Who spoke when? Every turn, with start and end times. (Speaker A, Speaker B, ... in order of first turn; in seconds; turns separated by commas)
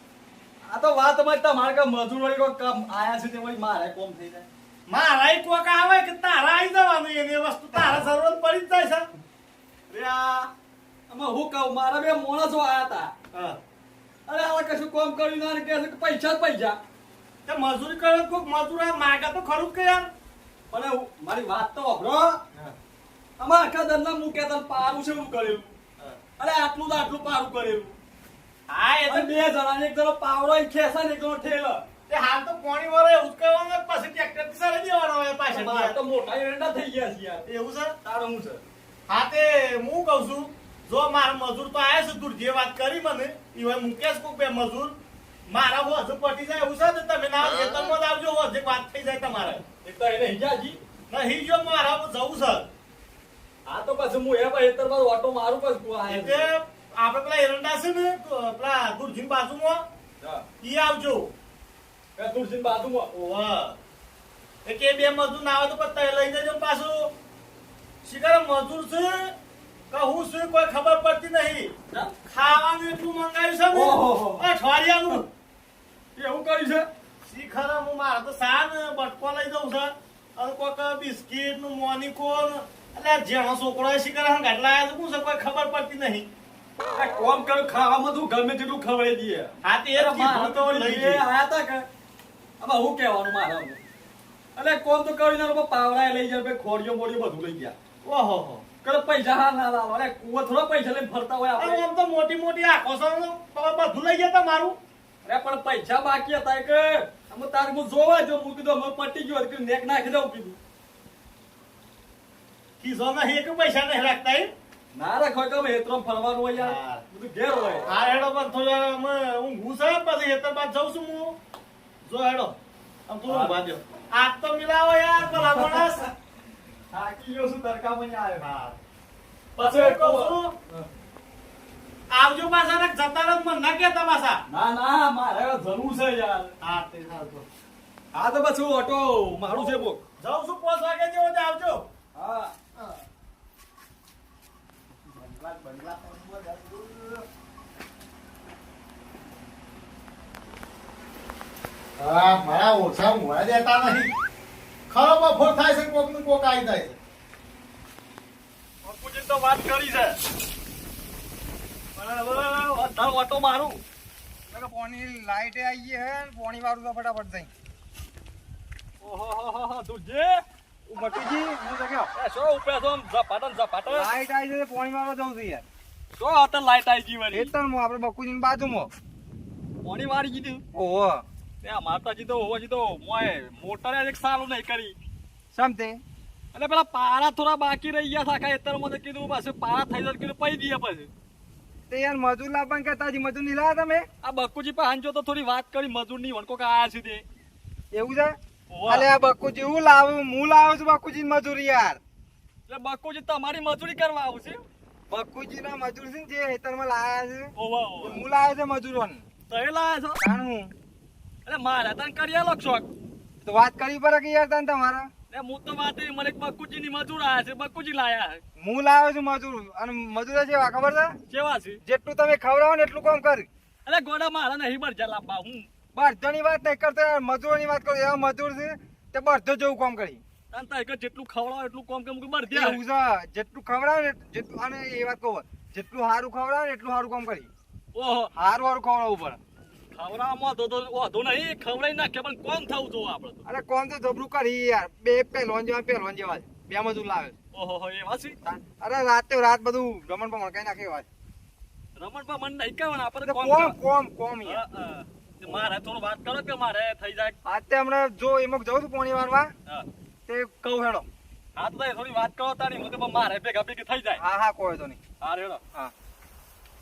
Speaker A: 0.6-4.5, Speaker B: 4.9-9.1, Speaker A: 9.9-10.5, Speaker A: 11.1-13.1, Speaker A: 14.3-16.8, Speaker B: 17.4-20.1, Speaker A: 20.7-22.4, Speaker A: 23.4-25.7, Speaker A: 26.4-27.9, Speaker B: 28.7-29.3, Speaker A: 29.1-31.8, Speaker B: 32.1-36.0, Speaker A: 35.5-37.5, Speaker B: 37.5-37.9, Speaker A: 38.0-38.6, Speaker B: 39.1-45.0, Speaker B: 45.5-49.6, Speaker A: 49.8-50.8, Speaker B: 51.1-52.7, Speaker A: 53.6-56.5, Speaker B: 56.0-59.8, Speaker B: 60.6-61.3, Speaker A: 62.1-63.1, Speaker B: 63.1-63.8, Speaker B: 64.6-67.1, Speaker B: 68.0-69.3, Speaker B: 69.9-71.7, Speaker B: 72.2-75.3, Speaker A: 73.7-74.5, Speaker A: 76.2-76.9, Speaker B: 77.2-86.3, Speaker A: 86.9-91.8, Speaker B: 89.6-91.3, Speaker A: 92.6-93.8, Speaker A: 94.5-97.7, Speaker B: 98.0-98.7, Speaker A: 98.8-101.8, Speaker B: 101.5-104.8, Speaker A: 105.2-110.6, Speaker B: 112.8-114.5, Speaker A: 114.9-117.9, Speaker B: 116.5-117.0, Speaker B: 117.8-121.3, Speaker B: 122.0-122.5, Speaker B: 123.1-126.1, Speaker A: 123.3-123.6, Speaker A: 125.2-126.1, Speaker A: 126.9-128.5, Speaker B: 128.4-128.8, Speaker A: 129.6-130.8, Speaker B: 129.6-130.5, Speaker B: 132.1-134.4, Speaker A: 134.5-136.6, Speaker B: 136.6-137.4, Speaker A: 138.1-140.0, Speaker B: 139.5-141.9, Speaker A: 142.1-142.5, Speaker B: 145.1-147.2, Speaker B: 152.0-154.1, Speaker B: 154.9-157.0, Speaker A: 158.8-160.2, Speaker A: 161.9-163.8, Speaker C: 164.5-167.5, Speaker A: 169.0-170.4, Speaker C: 170.9-172.1, Speaker A: 172.2-174.1, Speaker C: 173.9-175.6, Speaker A: 176.1-177.5, Speaker C: 177.3-178.9, Speaker A: 179.8-180.6, Speaker C: 180.7-181.2, Speaker A: 181.6-184.9, Speaker C: 185.5-186.0, Speaker A: 186.5-191.1, Speaker C: 191.9-194.1, Speaker A: 194.2-197.2, Speaker C: 197.9-202.0, Speaker A: 198.7-199.1, Speaker A: 202.7-204.6, Speaker C: 205.1-209.2, Speaker A: 207.6-208.2, Speaker A: 209.5-210.2, Speaker C: 210.2-210.7, Speaker A: 211.4-212.9, Speaker C: 213.4-215.1, Speaker A: 215.3-218.4, Speaker C: 218.6-221.2, Speaker A: 221.3-221.8, Speaker C: 221.8-223.5, Speaker A: 223.8-225.7, Speaker C: 225.9-230.2, Speaker A: 230.5-232.8, Speaker C: 232.5-237.5, Speaker A: 237.9-238.3, Speaker C: 238.3-239.4, Speaker A: 239.9-243.4, Speaker C: 243.4-247.3, Speaker A: 247.5-248.4, Speaker C: 248.4-251.1, Speaker A: 251.9-253.8, Speaker C: 253.2-254.6, Speaker A: 254.4-257.4, Speaker C: 257.4-259.5, Speaker C: 260.3-261.1, Speaker A: 261.6-264.2, Speaker C: 264.2-265.0, Speaker A: 265.2-265.6